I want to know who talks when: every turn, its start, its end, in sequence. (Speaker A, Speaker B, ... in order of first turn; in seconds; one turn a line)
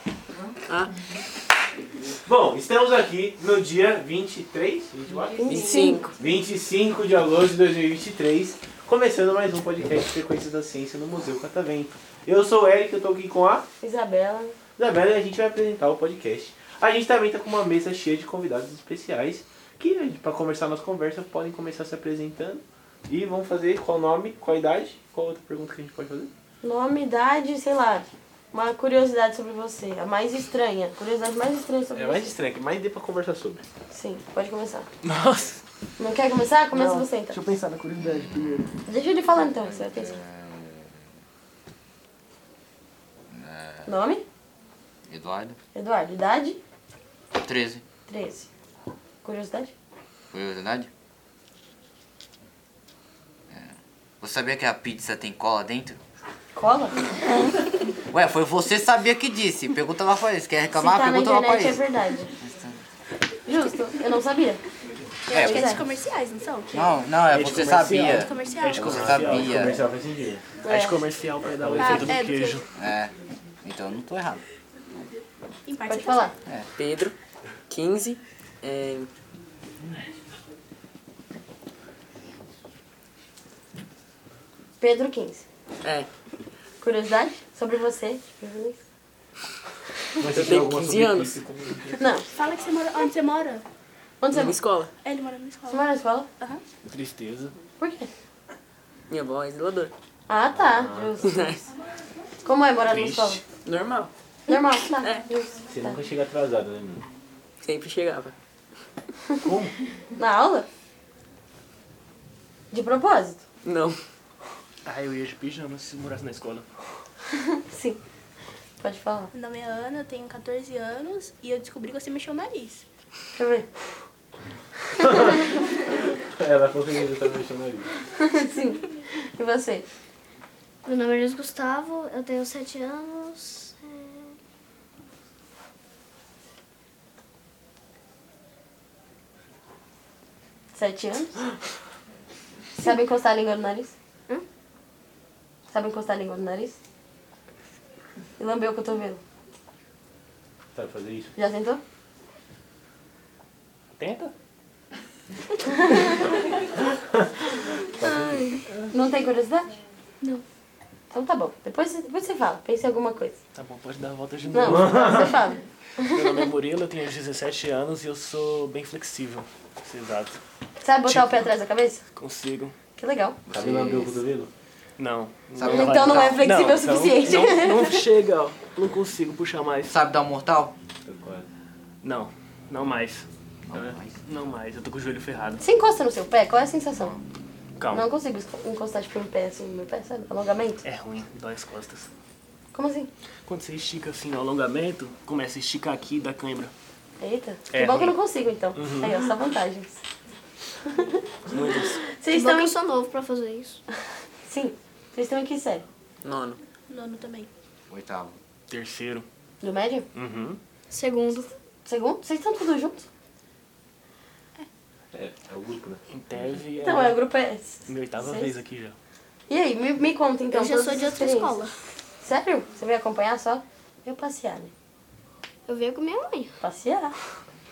Speaker A: 2.1-13.7
Speaker B: 5.4-6.1
Speaker C: 5.5-6.0
Speaker B: 13.8-14.6
Speaker A: 14.8-26.3
Speaker B: 26.6-32.3
Speaker A: 31.9-33.6
Speaker B: 33.9-34.9
Speaker D: 35.0-35.6
Speaker B: 36.0-37.4
Speaker D: 36.7-38.7
Speaker E: 38.0-38.6
Speaker B: 38.9-40.2
Speaker E: 39.8-40.9
Speaker E: 43.3-43.9
Speaker B: 43.9-44.2
Speaker E: 45.1-45.6
Speaker B: 45.7-46.6
Speaker E: 47.3-47.8
Speaker B: 48.1-48.5
Speaker B: 49.2-49.7
Speaker E: 50.3-50.9
Speaker E: 53.5-56.0
Speaker B: 56.5-57.1
Speaker E: 58.1-61.8
Speaker B: 60.7-62.3
Speaker E: 62.4-62.8
Speaker B: 63.4-64.6
Speaker F: 65.3-68.9
Speaker E: 65.3-65.8
Speaker B: 65.3-65.8
Speaker E: 66.7-69.8
Speaker D: 67.3-69.7
Speaker A: 68.9-70.4
Speaker B: 70.6-71.0
Speaker D: 70.7-72.6
Speaker A: 71.6-72.2
Speaker F: 71.8-72.6
Speaker E: 72.8-73.1
Speaker E: 73.6-74.4
Speaker F: 75.7-76.3
Speaker B: 75.9-76.3
Speaker C: 76.8-77.1
Speaker C: 77.7-79.1
Speaker B: 84.8-85.4
Speaker C: 85.8-86.1
Speaker B: 86.8-88.8
Speaker A: 90.2-92.2
Speaker C: 90.3-91.3
Speaker B: 92.0-92.3
Speaker F: 92.3-93.6
Speaker B: 94.2-94.6
Speaker C: 94.4-94.9
Speaker F: 95.0-95.9
Speaker B: 95.7-96.3
Speaker D: 96.9-97.5
Speaker B: 97.8-98.1
Speaker C: 99.1-99.9
Speaker B: 100.3-101.7
Speaker B: 102.4-103.4
Speaker D: 102.9-103.4
Speaker C: 103.6-104.1
Speaker B: 104.5-106.0
Speaker A: 105.7-107.0
Speaker C: 107.6-108.3
Speaker A: 109.4-109.7
Speaker B: 110.2-110.7
Speaker B: 112.7-113.4
Speaker C: 113.6-114.0
Speaker D: 114.8-116.7
Speaker B: 117.3-118.0
Speaker B: 118.8-119.3
Speaker F: 119.3-122.8
Speaker B: 123.3-123.7
Speaker A: 125.0-127.9
Speaker B: 128.2-129.8
Speaker G: 130.8-134.3
Speaker B: 140.7-141.5
Speaker B: 142.7-143.9
Speaker B: 145.7-146.8
Speaker B: 148.4-149.2
Speaker A: 150.7-151.3
Speaker B: 151.3-151.8
Speaker D: 153.9-154.3
Speaker A: 157.0-157.2
Speaker A: 157.8-158.6
Speaker B: 158.9-159.7
Speaker B: 161.1-163.4
Speaker D: 163.5-165.3
Speaker B: 164.5-166.5
Speaker A: 164.6-165.3
Speaker D: 166.0-170.4
Speaker B: 170.8-172.0
Speaker D: 171.0-171.5
Speaker D: 172.1-172.7
Speaker B: 173.0-173.4
Speaker E: 173.5-174.2
Speaker A: 173.5-174.5
Speaker D: 175.0-179.9
Speaker E: 175.6-176.4
Speaker B: 175.6-178.1
Speaker E: 179.9-180.7
Speaker A: 181.0-181.5
Speaker D: 182.0-183.2
Speaker E: 183.7-184.2
Speaker D: 184.2-185.6
Speaker B: 185.6-187.2
Speaker D: 187.8-188.1
Speaker B: 187.9-190.8
Speaker D: 190.8-192.1
Speaker B: 192.7-193.1
Speaker D: 193.4-196.7
Speaker B: 197.2-200.0
Speaker D: 197.7-198.2
Speaker D: 198.7-199.2
Speaker B: 200.9-201.1
Speaker D: 201.5-202.1
Speaker B: 202.1-202.8
Speaker G: 202.3-203.8
Speaker B: 204.5-205.8
Speaker C: 206.2-206.6
Speaker F: 206.9-207.5
Speaker E: 207.9-208.3
Speaker D: 208.7-209.3
Speaker B: 209.6-210.1
Speaker D: 210.1-210.6
Speaker G: 210.9-211.5
Speaker B: 211.8-213.1
Speaker A: 215.1-216.6
Speaker D: 216.1-217.2
Speaker B: 216.8-218.6
Speaker D: 217.9-218.9
Speaker B: 219.5-221.6
Speaker G: 220.5-221.7
Speaker B: 222.2-224.7
Speaker G: 225.7-226.5
Speaker B: 226.6-227.1